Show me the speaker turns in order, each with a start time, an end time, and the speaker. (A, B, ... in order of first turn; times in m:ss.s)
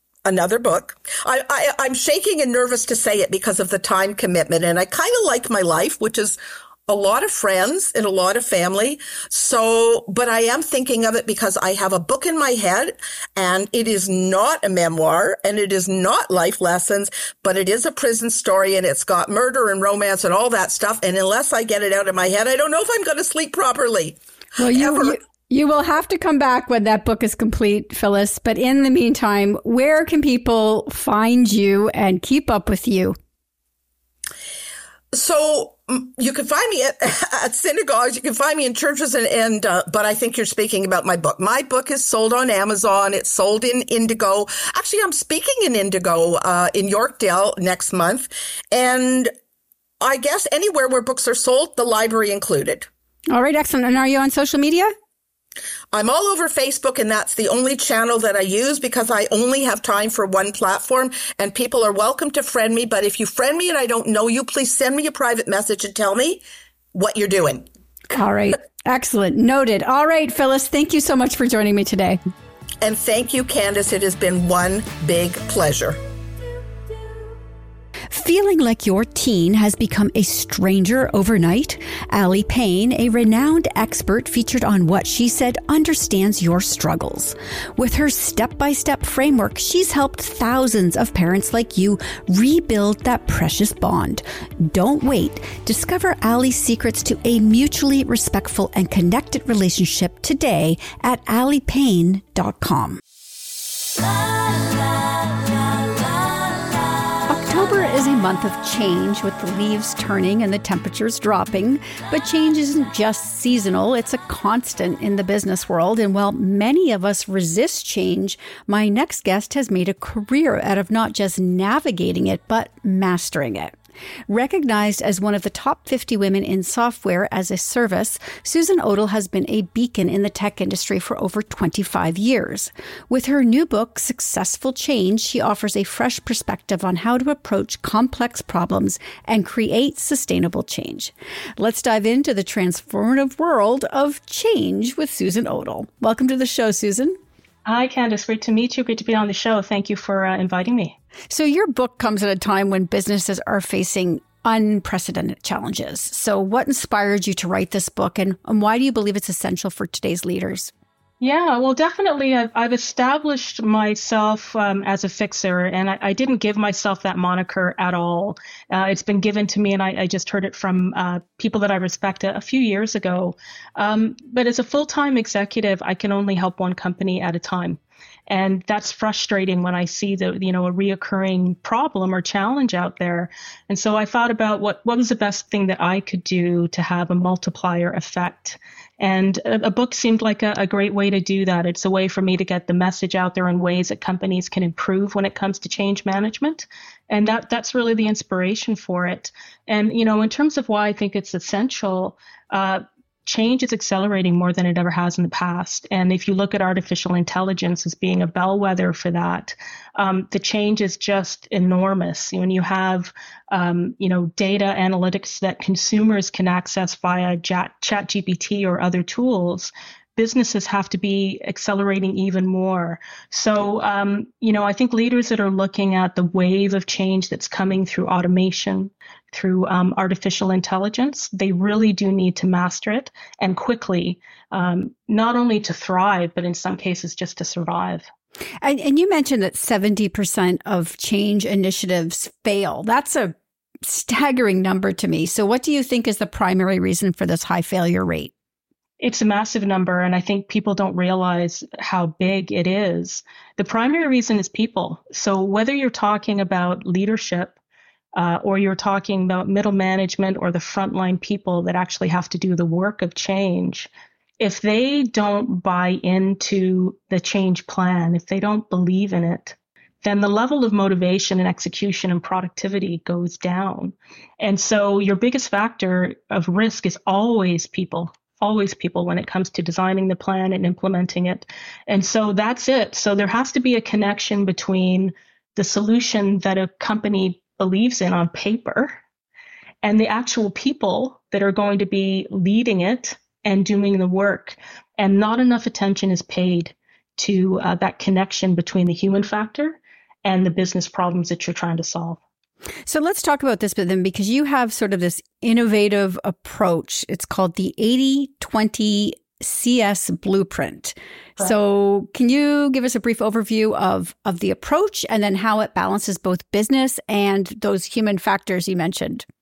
0:00.2-0:06.4 A
0:06.9-0:25.2 A
0:24.6-0:33.2 B
0:35.1-0:49.3 A
0:50.0-0:52.9 A
0:53.3-0:54.9 B
0:55.9-1:06.4 A
1:06.9-1:07.7 A
1:08.1-1:12.2 B
1:12.8-1:16.0 A
1:18.1-1:43.0 B
1:47.3-2:03.7 B
2:04.3-2:27.2 B
2:27.7-2:31.0 C
2:31.3-2:40.7 B
2:41.2-3:58.0 C
3:58.6-4:08.3 B
4:09.0-4:17.6 C
4:18.2-4:49.0 C
4:49.8-5:02.2 C
5:02.9-5:19.2 B